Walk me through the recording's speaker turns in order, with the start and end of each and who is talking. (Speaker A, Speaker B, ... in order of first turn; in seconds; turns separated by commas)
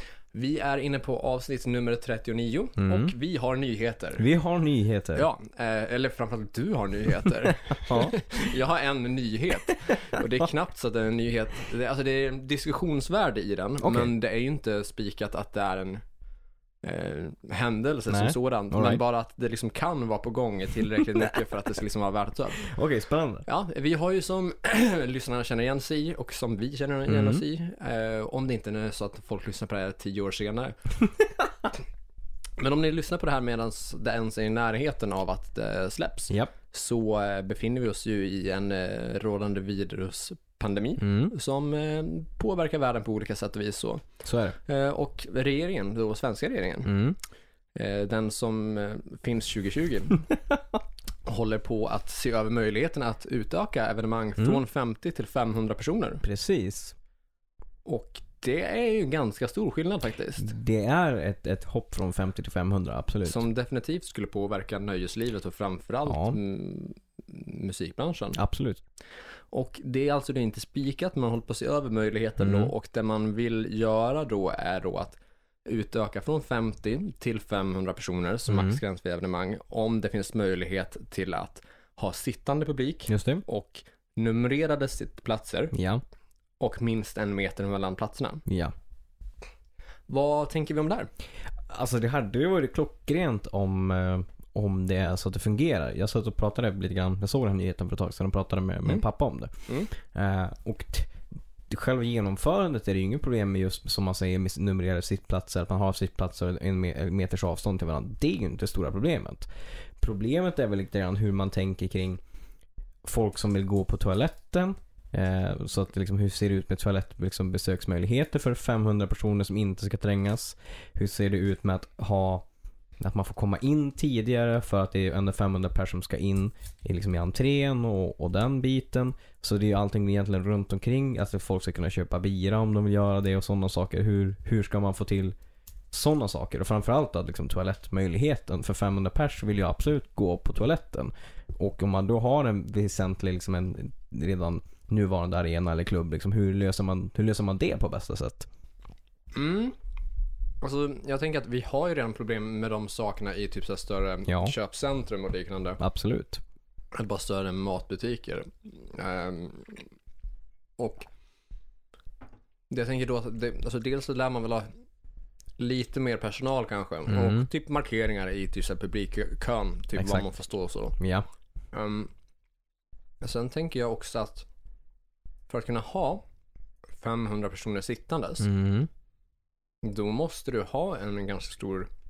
Speaker A: 0.3-4.2, Speaker B: 2.8-3.1, Speaker B: 4.2-5.2, Speaker A: 5.1-16.0, Speaker B: 7.7-8.2, Speaker B: 13.8-14.1, Speaker A: 16.8-22.7, Speaker B: 18.1-19.0, Speaker B: 22.6-23.4, Speaker A: 23.4-30.8, Speaker B: 27.1-27.4, Speaker A: 32.6-44.0, Speaker B: 41.0-41.3, Speaker B: 44.2-44.6, Speaker A: 44.6-47.0, Speaker B: 46.8-47.2, Speaker A: 47.7-50.2, Speaker A: 51.2-56.2, Speaker B: 56.2-56.9, Speaker A: 57.9-60.5, Speaker B: 60.4-63.4, Speaker A: 63.2-68.4, Speaker B: 66.1-66.4, Speaker B: 68.3-68.8, Speaker A: 69.5-85.7, Speaker B: 72.4-72.7, Speaker B: 78.5-78.8, Speaker B: 83.1-83.4, Speaker B: 85.7-86.0, Speaker A: 86.6-88.4, Speaker B: 88.5-88.7, Speaker A: 90.1-91.1, Speaker B: 91.7-101.1, Speaker B: 101.7-109.5, Speaker B: 110.0-112.2, Speaker B: 113.0-122.5, Speaker B: 123.0-135.3, Speaker B: 135.9-148.5, Speaker A: 149.3-149.8, Speaker A: 150.6-155.8, Speaker B: 154.3-154.5, Speaker B: 155.8-156.4, Speaker A: 156.9-159.8, Speaker A: 160.8-161.1, Speaker A: 162.7-164.7, Speaker A: 165.6-171.0, Speaker B: 167.1-167.5, Speaker B: 169.9-170.2, Speaker B: 171.0-171.2, Speaker A: 171.7-172.1, Speaker A: 173.2-174.5, Speaker A: 175.5-176.2, Speaker A: 177.0-178.5, Speaker B: 178.4-178.9, Speaker A: 179.8-181.9